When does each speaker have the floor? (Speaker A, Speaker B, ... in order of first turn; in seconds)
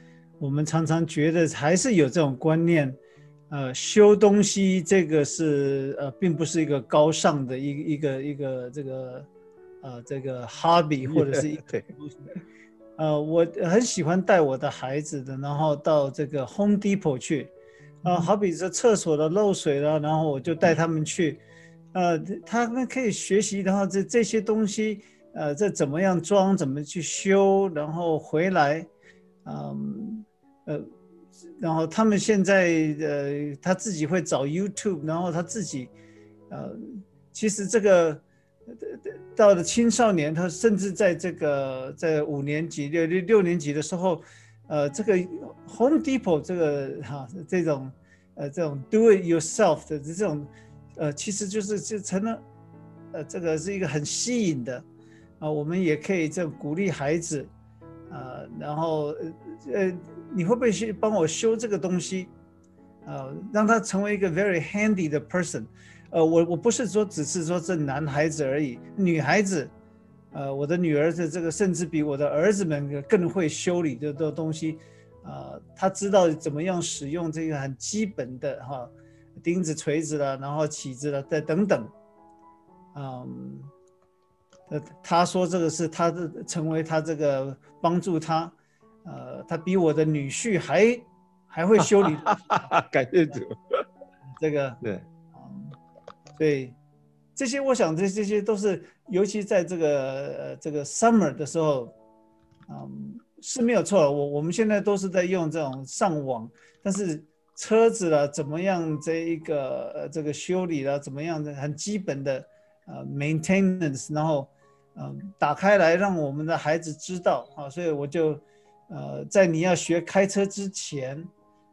Speaker A: 0.4-3.0, 3.5-9.3, 9.8-12.3, 13.0-17.5, 18.0-21.4, 21.9-28.9, 29.4-30.9, 31.6-35.9, 36.5-52.4, 53.1-54.9, 55.4-57.5, 58.1-62.3, 63.0-69.7, 70.3-81.9, 82.9-83.7, 84.7-92.7, 94.3-94.8, 95.3-95.8, 96.4-96.8, 97.4-101.9, 102.7-121.3
Speaker B: 11.1-11.9, 92.0-93.8, 94.8-95.1